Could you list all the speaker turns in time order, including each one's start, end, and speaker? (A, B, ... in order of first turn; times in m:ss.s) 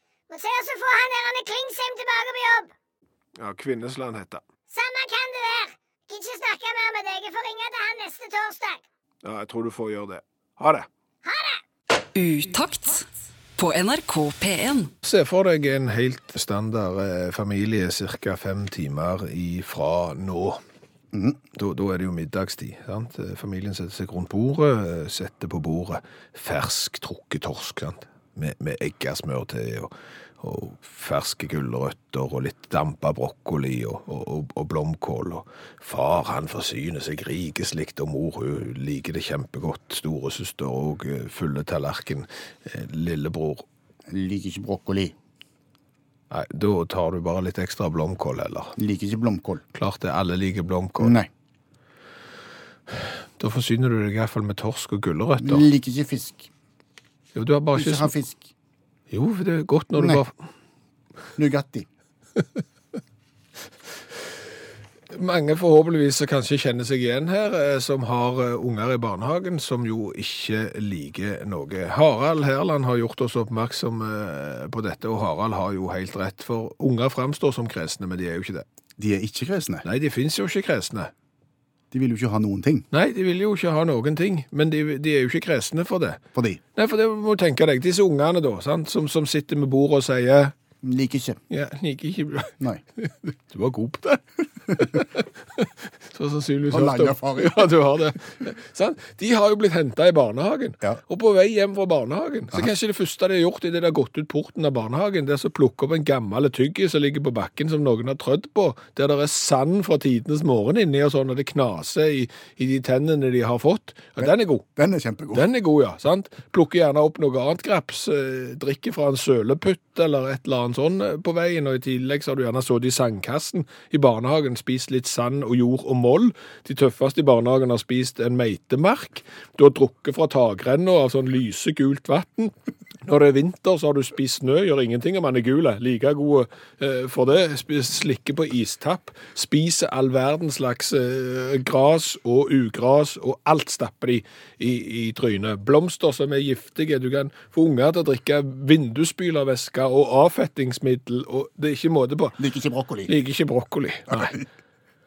0:00.3-0:02.7 A
0:03.4-0:04.4 B
0:04.7-0:08.8 A
0:09.2-0:10.9 B
0:11.2-0:11.6 A
0:12.1-0:14.9 C
0:15.0-0:20.6 B
0:21.1-0:21.4 D
0:21.5-0:43.6 B
0:44.1-0:45.1 D
0:46.3-0:48.7 B
0:48.8-0:49.6 D
0:49.7-0:51.2 B
0:51.0-0:51.3 D
0:52.9-0:55.7 B
0:55.4-0:56.5 D
0:57.3-0:58.1 B
0:57.7-0:58.5 D
0:59.1-1:00.3 B
1:00.0-1:00.2 D
1:01.4-1:01.9 D
1:05.1-1:18.6 B
1:19.0-1:19.8 D
1:19.8-1:21.1 B
1:21.9-1:22.9 D
1:22.9-1:26.2 B
1:26.3-1:26.6 D
1:26.8-1:30.5 B
1:30.8-1:31.4 D
1:31.5-1:54.6 B
1:36.7-1:37.7 D
1:54.2-1:55.5 D
1:55.3-2:32.4 B
2:32.4-2:33.1 D
2:33.0-2:34.4 B
2:34.1-2:34.4 D